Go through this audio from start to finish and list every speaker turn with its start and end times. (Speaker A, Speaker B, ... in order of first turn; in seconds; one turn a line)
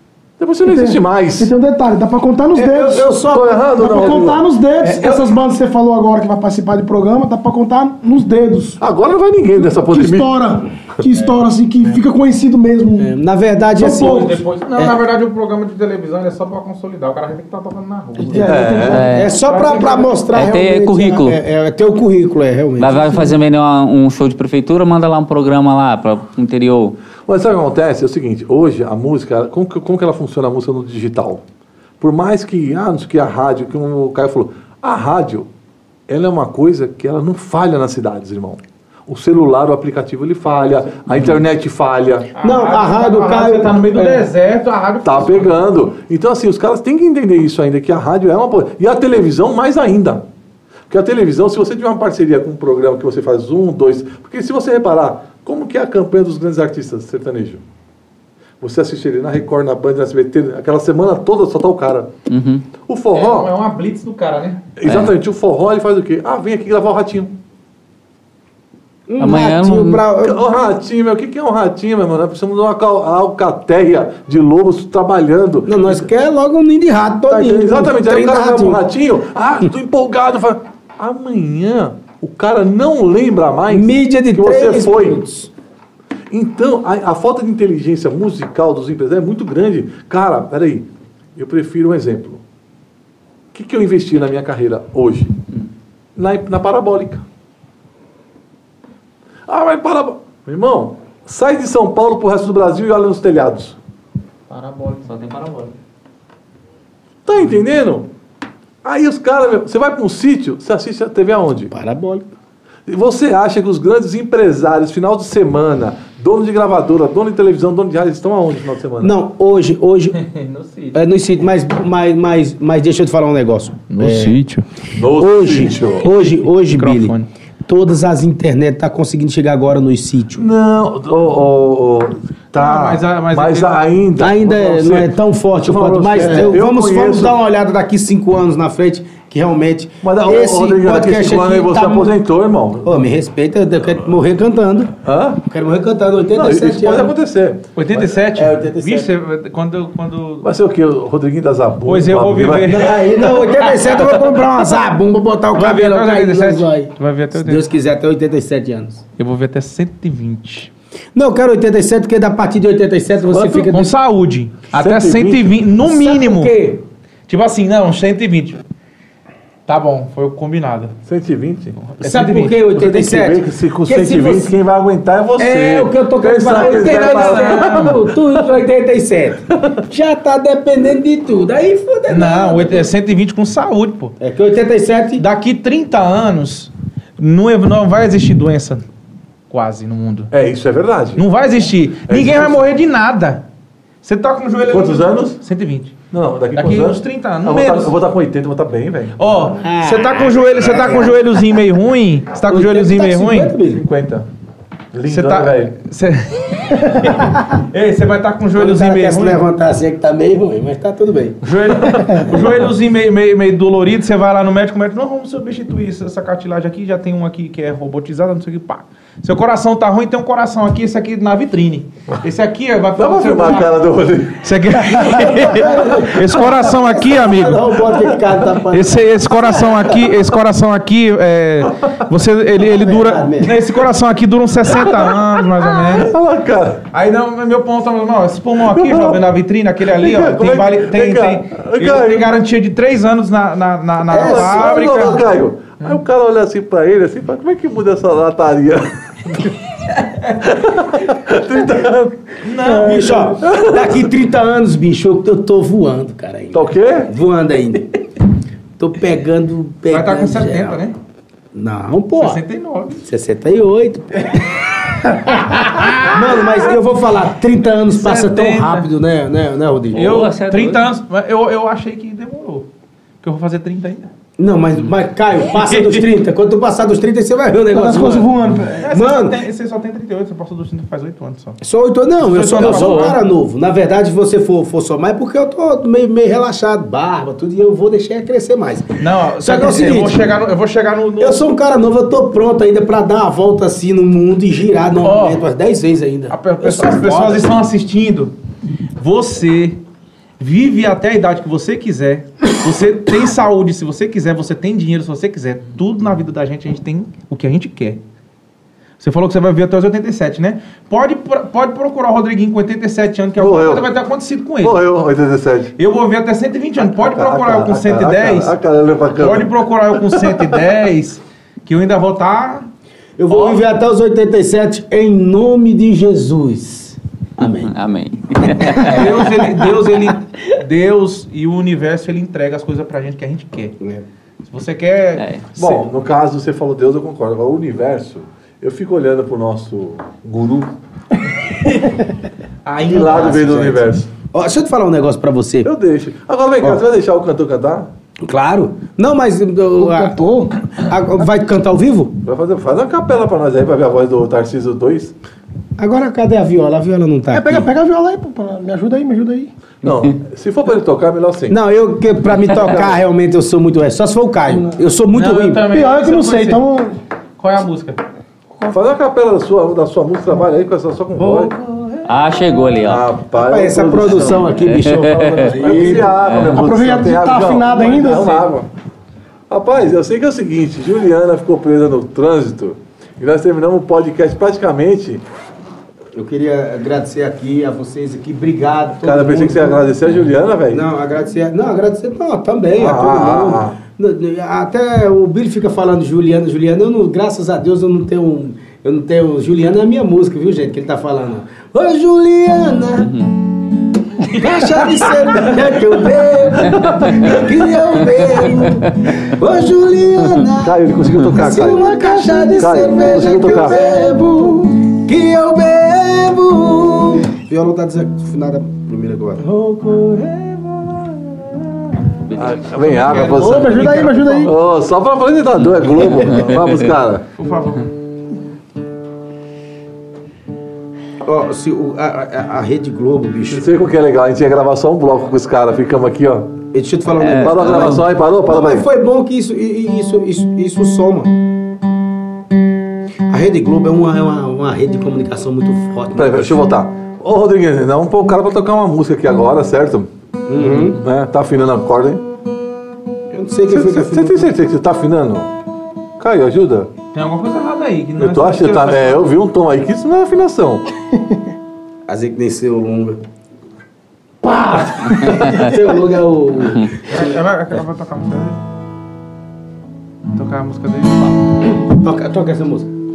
Speaker A: 0.4-1.5
Speaker B: 0.7-3.1
Speaker C: 2.5-4.3
Speaker A: 3.2-4.5
Speaker B: 3.7-8.8
Speaker D: 4.8-5.2
Speaker C: 4.9-5.1
Speaker A: 8.8-10.3
Speaker B: 9.6-13.1
Speaker C: 13.0-15.0
Speaker D: 13.8-20.2
Speaker C: 18.2-23.4
Speaker B: 18.4-18.9
Speaker A: 18.4-19.1
Speaker E: 18.9-19.3
Speaker E: 20.3-21.4
Speaker E: 22.8-27.0
Speaker A: 27.2-31.4
Speaker A: 32.0-35.5
Speaker A: 36.1-42.3
Speaker D: 42.4-45.6
Speaker C: 42.4-44.3
Speaker A: 45.0-50.2
Speaker A: 50.9-57.6
Speaker A: 58.6-62.1
Speaker E: 62.3-62.6
Speaker A: 62.9-63.5
Speaker D: 63.1-64.6
Speaker A: 64.8-67.3
Speaker E: 64.8-65.1
Speaker C: 69.1-70.4
Speaker E: 69.2-70.0
Speaker A: 70.2-76.1
Speaker C: 75.7-78.8
Speaker A: 77.3-85.2
Speaker C: 83.7-85.5
Speaker A: 86.3-92.4
Speaker A: 93.5-95.3
Speaker A: 96.2-97.2
Speaker A: 99.5-103.8
Speaker D: 104.5-105.1
Speaker E: 104.5-105.7
Speaker A: 107.2-108.1
Speaker A: 108.8-111.7
Speaker C: 111.7-112.2
Speaker A: 112.9-119.1
Speaker C: 119.0-120.2
Speaker D: 120.2-121.0
Speaker C: 120.9-124.3
Speaker D: 123.9-124.6
Speaker A: 124.9-126.1
Speaker C: 125.1-127.1
Speaker D: 126.6-127.3
Speaker C: 127.7-130.4
Speaker A: 130.3-137.4
Speaker D: 132.5-133.8
Speaker C: 134.2-142.1
Speaker A: 140.0-142.9
Speaker C: 142.8-144.9
Speaker A: 145.0-145.4
Speaker C: 145.4-147.1
Speaker A: 146.2-148.2
Speaker D: 147.8-150.5
Speaker C: 148.3-149.1
Speaker A: 150.4-152.7
Speaker D: 151.8-154.0
Speaker C: 152.7-159.0
Speaker D: 155.5-157.7
Speaker D: 159.2-160.7
Speaker C: 161.2-163.9
Speaker A: 163.3-163.7
Speaker D: 163.6-168.6
Speaker A: 164.7-165.7
Speaker C: 165.8-166.7
Speaker D: 169.7-170.9
Speaker A: 171.0-178.4
Speaker D: 171.8-172.1
Speaker C: 172.0-174.5
Speaker C: 175.4-182.9
Speaker D: 176.5-177.9
Speaker A: 179.5-179.8
Speaker D: 182.1-184.1
Speaker C: 184.2-185.2
Speaker D: 185.2-188.8
Speaker D: 189.5-190.3
Speaker A: 190.3-191.2
Speaker D: 191.2-193.4
Speaker A: 192.1-192.6
Speaker D: 194.0-195.9
Speaker A: 194.7-195.4
Speaker A: 196.1-199.6
Speaker D: 196.5-197.9
Speaker D: 199.2-203.6
Speaker C: 199.6-201.2
Speaker C: 202.5-203.8
Speaker A: 203.8-204.2
Speaker A: 204.9-205.8
Speaker D: 205.1-209.4
Speaker C: 208.6-211.4
Speaker D: 211.4-223.7
Speaker A: 211.6-212.0
Speaker A: 223.0-226.1
Speaker D: 224.4-227.8
Speaker C: 225.4-229.0
Speaker D: 228.7-236.1
Speaker A: 231.7-232.0
Speaker C: 232.7-233.6
Speaker A: 234.7-236.8
Speaker D: 236.9-245.2
Speaker A: 238.6-239.2
Speaker A: 239.9-242.3
Speaker C: 244.1-245.2
Speaker A: 244.2-249.6
Speaker A: 250.3-252.3
Speaker D: 252.4-253.3
Speaker C: 252.7-257.9
Speaker A: 253.4-254.0
Speaker A: 256.5-257.1
Speaker C: 258.8-260.8
Speaker D: 259.9-260.9
Speaker C: 261.5-262.4
Speaker D: 262.1-263.0
Speaker C: 263.0-264.6
Speaker D: 265.3-266.5
Speaker C: 266.0-270.1
Speaker D: 267.9-268.9
Speaker D: 269.9-272.7
Speaker E: 269.9-270.8
Speaker D: 273.2-274.1
Speaker C: 274.4-278.3
Speaker D: 275.5-276.0
Speaker B: 277.7-278.9
Speaker D: 278.4-281.6
Speaker C: 278.9-279.4
Speaker C: 281.6-290.2
Speaker D: 282.2-283.2
Speaker D: 289.0-291.4
Speaker C: 291.2-297.5
Speaker D: 295.0-295.4
Speaker D: 296.3-298.3
Speaker D: 299.0-299.8
Speaker D: 300.4-308.0
Speaker D: 309.0-314.8
Speaker A: 313.4-313.9
Speaker A: 314.6-315.7
Speaker D: 315.8-318.5
Speaker A: 316.8-320.6
Speaker D: 319.1-322.6
Speaker C: 323.2-327.7
Speaker D: 323.3-323.6
Speaker E: 327.6-329.1
Speaker D: 328.8-333.7
Speaker D: 334.5-335.8
Speaker E: 335.2-335.4
Speaker A: 335.6-340.7
Speaker D: 342.6-343.5
Speaker A: 342.8-344.1
Speaker C: 342.9-343.8
Speaker C: 344.3-345.7
Speaker A: 345.6-347.9
Speaker C: 348.2-350.1
Speaker B: 349.8-350.7
Speaker C: 350.7-352.1
Speaker A: 352.2-355.1
Speaker C: 355.8-357.6
Speaker B: 357.3-359.5
Speaker A: 359.8-361.6
Speaker C: 361.5-365.6
Speaker D: 365.1-366.6
Speaker B: 365.7-366.9
Speaker D: 367.4-368.0
Speaker A: 368.7-371.6
Speaker C: 371.2-371.8
Speaker E: 372.0-373.0
Speaker A: 372.8-374.5
Speaker C: 373.3-376.1
Speaker E: 374.1-376.6
Speaker A: 375.5-378.7
Speaker B: 376.4-378.4
Speaker A: 379.5-385.2
Speaker C: 386.1-389.8
Speaker A: 389.0-390.8
Speaker C: 390.7-403.2
Speaker A: 392.8-393.8
Speaker C: 404.2-410.8
Speaker A: 406.6-407.3
Speaker A: 410.6-411.9
Speaker C: 411.3-421.0
Speaker B: 411.4-414.6
Speaker A: 412.6-413.8
Speaker A: 422.3-423.8
Speaker D: 422.8-424.5
Speaker B: 423.2-424.5
Speaker A: 424.4-427.2
Speaker E: 426.3-426.7
Speaker D: 427.4-427.9
Speaker C: 431.2-433.6
Speaker A: 433.4-436.5
Speaker C: 436.7-441.3
Speaker E: 437.1-438.0
Speaker A: 437.4-438.9
Speaker C: 443.3-446.6
Speaker A: 446.1-450.1
Speaker C: 450.5-451.0
Speaker A: 450.8-452.2
Speaker C: 453.3-454.5
Speaker A: 453.7-455.5
Speaker A: 456.2-456.9
Speaker D: 457.1-459.2
Speaker A: 458.2-460.8
Speaker C: 462.1-463.2
Speaker A: 464.4-465.8
Speaker C: 465.4-467.2
Speaker D: 467.1-468.6
Speaker D: 470.3-471.4
Speaker C: 471.7-472.9